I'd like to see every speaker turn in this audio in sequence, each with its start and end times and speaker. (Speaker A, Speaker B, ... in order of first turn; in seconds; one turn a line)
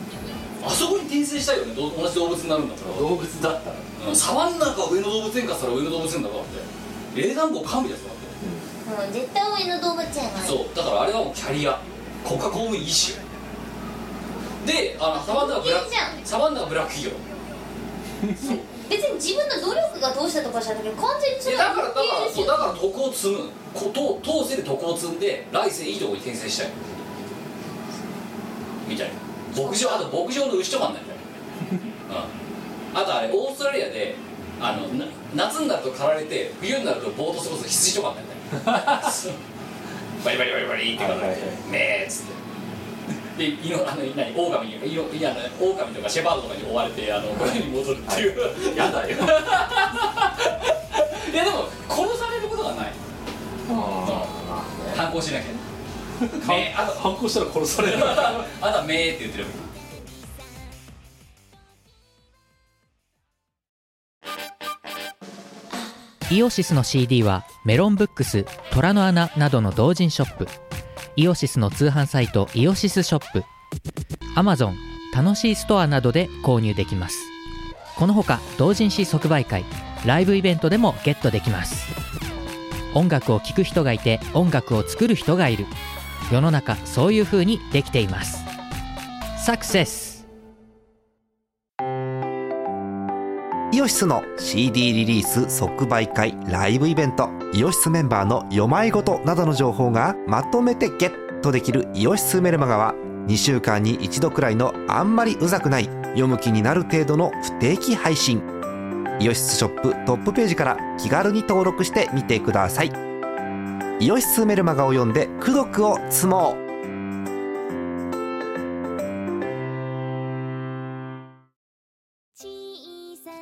Speaker A: 0.6-3.1
Speaker B: 2.8-3.9
Speaker A: 4.0-8.3
Speaker B: 8.4-8.7
Speaker C: 8.8-10.6
Speaker A: 10.4-13.2
Speaker A: 14.6-17.2
Speaker C: 15.2-16.2
Speaker B: 18.2-18.6
Speaker C: 18.8-22.8
Speaker A: 21.4-26.8
Speaker A: 28.9-31.2
Speaker C: 29.6-30.1
Speaker A: 32.9-39.4
Speaker B: 38.5-39.2
Speaker A: 40.2-42.4
Speaker B: 41.0-41.6
Speaker A: 43.4-53.0
Speaker B: 47.4-49.6
Speaker B: 53.7-55.0
Speaker A: 54.0-54.3
Speaker A: 54.9-55.6
Speaker B: 56.2-58.5
Speaker A: 56.4-57.1
Speaker A: 57.7-59.6
Speaker D: 66.3-70.5
Speaker D: 71.2-73.5
Speaker D: 74.3-77.3
Speaker D: 78.0-81.9
Speaker D: 82.9-85.7
Speaker D: 86.3-88.5
Speaker D: 89.3-90.2
Speaker E: 93.7-108.5
Speaker E: 109.2-113.0
Speaker E: 114.0-116.6